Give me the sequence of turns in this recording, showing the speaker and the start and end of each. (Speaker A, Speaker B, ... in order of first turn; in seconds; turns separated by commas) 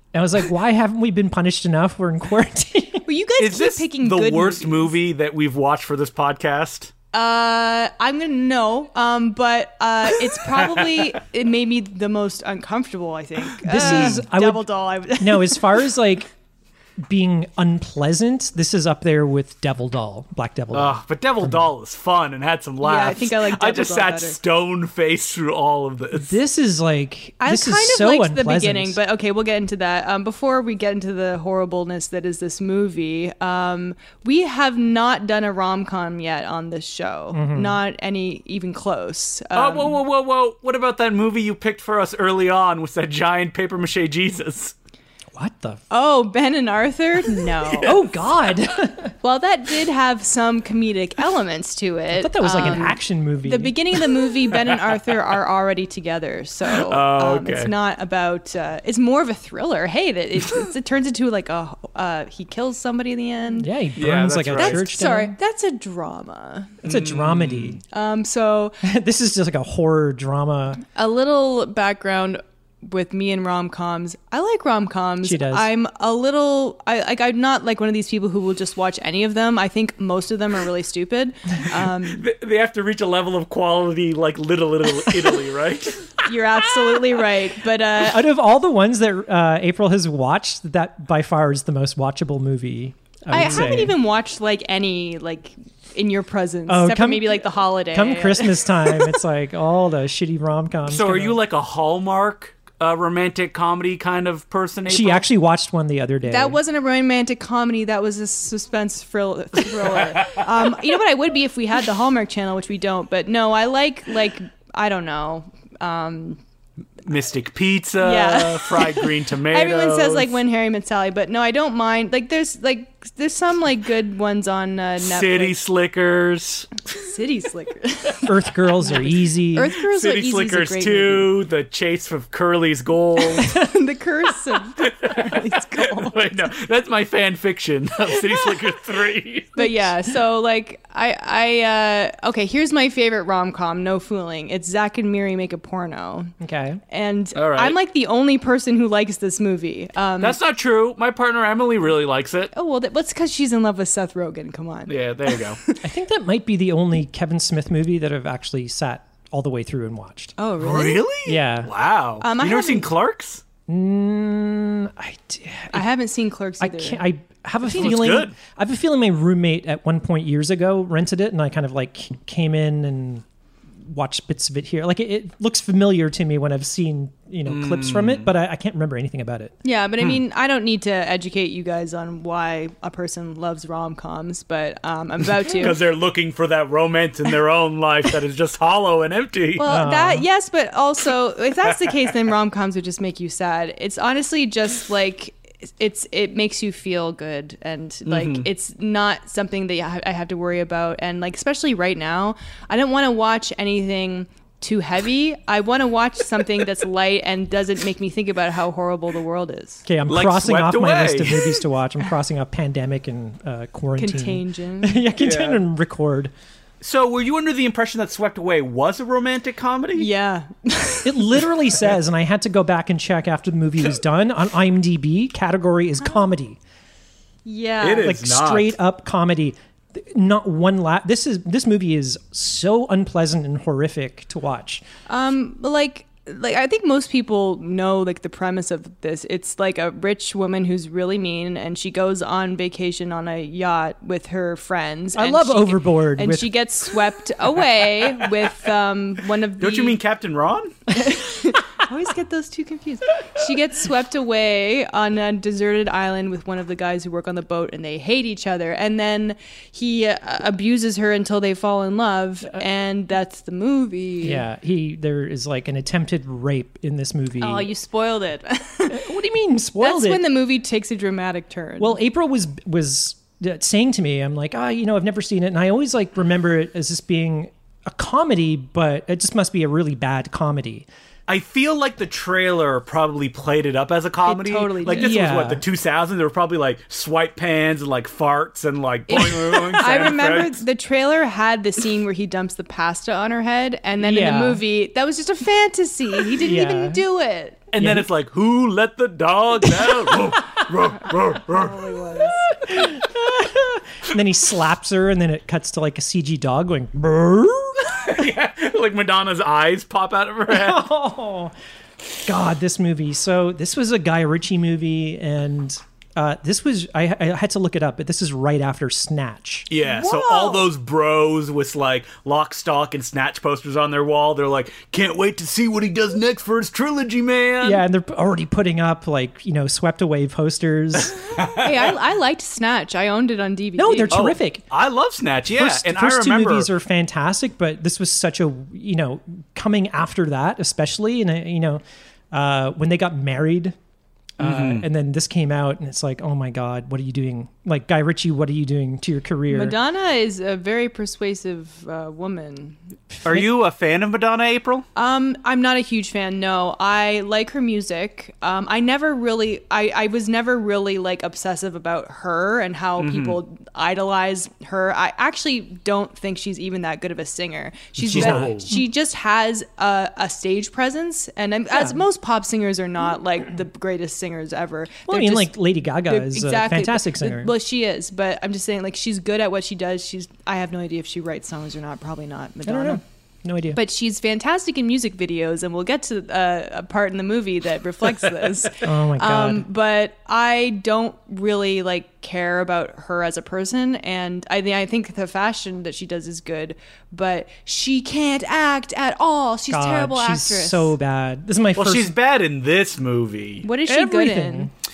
Speaker A: 0.1-3.1, Speaker B: 3.1-4.9, Speaker C: 3.4-6.9, Speaker B: 7.1-15.9, Speaker A: 13.6-14.7, Speaker C: 13.7-14.2, Speaker A: 15.2-16.3, Speaker A: 17.0-21.6, Speaker C: 20.7-26.4, Speaker B: 22.8-24.4, Speaker A: 26.1-29.0, Speaker B: 27.4-40.0, Speaker A: 37.3-37.8, Speaker C: 39.5-44.8, Speaker A: 45.3-45.8, Speaker B: 45.9-48.0, Speaker A: 47.8-49.1, Speaker B: 49.2-63.7, Speaker A: 52.1-53.8, Speaker C: 54.9-55.2, Speaker C: 56.7-57.7, Speaker A: 63.6-65.3, Speaker C: 64.0-64.9, Speaker B: 64.5-66.8, Speaker C: 66.8-67.8, Speaker A: 66.8-67.8, Speaker B: 67.9-68.8, Speaker A: 68.8-70.8, Speaker B: 70.8-82.2, Speaker A: 75.2-75.7, Speaker C: 82.0-86.3, Speaker A: 85.1-85.3, Speaker B: 86.2-88.2, Speaker A: 88.0-93.9, Speaker B: 93.3-99.2, Speaker A: 96.7-101.4, Speaker C: 100.9-105.2, Speaker A: 104.9-106.6, Speaker B: 106.2-116.4, Speaker C: 117.0-120.3, Speaker B: 118.0-125.5, Speaker C: 125.0-126.8, Speaker B: 126.9-131.3, Speaker A: 128.2-129.8, Speaker C: 129.8-133.6, Speaker B: 133.2-136.2, Speaker C: 134.8-139.8, Speaker B: 139.6-146.3, Speaker A: 146.4-146.8, Speaker B: 146.9-150.4, Speaker C: 147.3-147.8, Speaker C: 150.2-152.5, Speaker B: 152.5-155.8, Speaker C: 154.9-155.6, Speaker A: 155.8-160.3, Speaker B: 160.4-161.1, Speaker C: 160.6-163.4, Speaker A: 161.2-161.7, Speaker B: 162.2-162.9, Speaker A: 163.7-165.9, Speaker B: 165.7-167.0, Speaker A: 166.6-173.2, Speaker B: 167.7-168.2, Speaker C: 167.7-168.3, Speaker A: 173.8-179.5, Speaker C: 177.4-178.3, Speaker B: 179.6-185.8, Speaker C: 185.4-189.7, Speaker B: 189.6-209.8, Speaker A: 189.7-190.2, Speaker C: 191.7-192.2, Speaker C: 198.1-198.4, Speaker A: 209.9-216.3, Speaker C: 210.1-211.5, Speaker B: 214.0-215.1, Speaker C: 215.2-215.6, Speaker C: 216.8-220.1, Speaker B: 219.9-221.4, Speaker A: 221.1-226.6, Speaker B: 227.4-228.2, Speaker C: 227.8-228.8, Speaker A: 228.0-234.8, Speaker B: 235.1-250.0, Speaker A: 245.2-246.5, Speaker C: 249.6-250.8, Speaker B: 250.9-264.4, Speaker A: 264.2-267.7, Speaker B: 267.4-269.1, Speaker A: 268.9-270.2, Speaker B: 269.8-272.0, Speaker A: 271.8-280.9, Speaker C: 281.3-290.6, Speaker B: 284.2-285.2, Speaker A: 284.9-285.6, Speaker B: 289.1-297.6, Speaker A: 294.0-294.6, Speaker A: 296.4-297.0, Speaker C: 297.7-301.9, Speaker A: 297.8-298.1, Speaker B: 301.5-302.4, Speaker A: 302.5-308.0, Speaker C: 308.0-310.8, Speaker A: 310.5-311.5, Speaker A: 312.3-319.7, Speaker C: 319.7-327.8, Speaker B: 319.8-320.7, Speaker A: 327.6-331.2, Speaker C: 331.3-331.7, Speaker B: 331.4-334.2, Speaker A: 333.8-334.6, Speaker C: 334.1-336.7, Speaker A: 335.5-341.8, Speaker A: 342.3-343.8, Speaker C: 344.4-344.8, Speaker A: 344.4-349.8, Speaker B: 349.5-352.8, Speaker A: 353.2-353.5, Speaker C: 353.2-354.9, Speaker B: 354.9-375.5, Speaker C: 363.0-363.4, Speaker C: 368.0-368.7, Speaker A: 368.1-368.8, Speaker A: 371.7-372.0, Speaker A: 375.1-377.5, Speaker B: 376.1-383.0, Speaker A: 382.6-383.8, Speaker B: 383.7-400.9, Speaker A: 388.8-389.7, Speaker A: 399.7-402.1, Speaker C: 401.8-403.7, Speaker B: 403.6-404.7, Speaker A: 403.9-404.7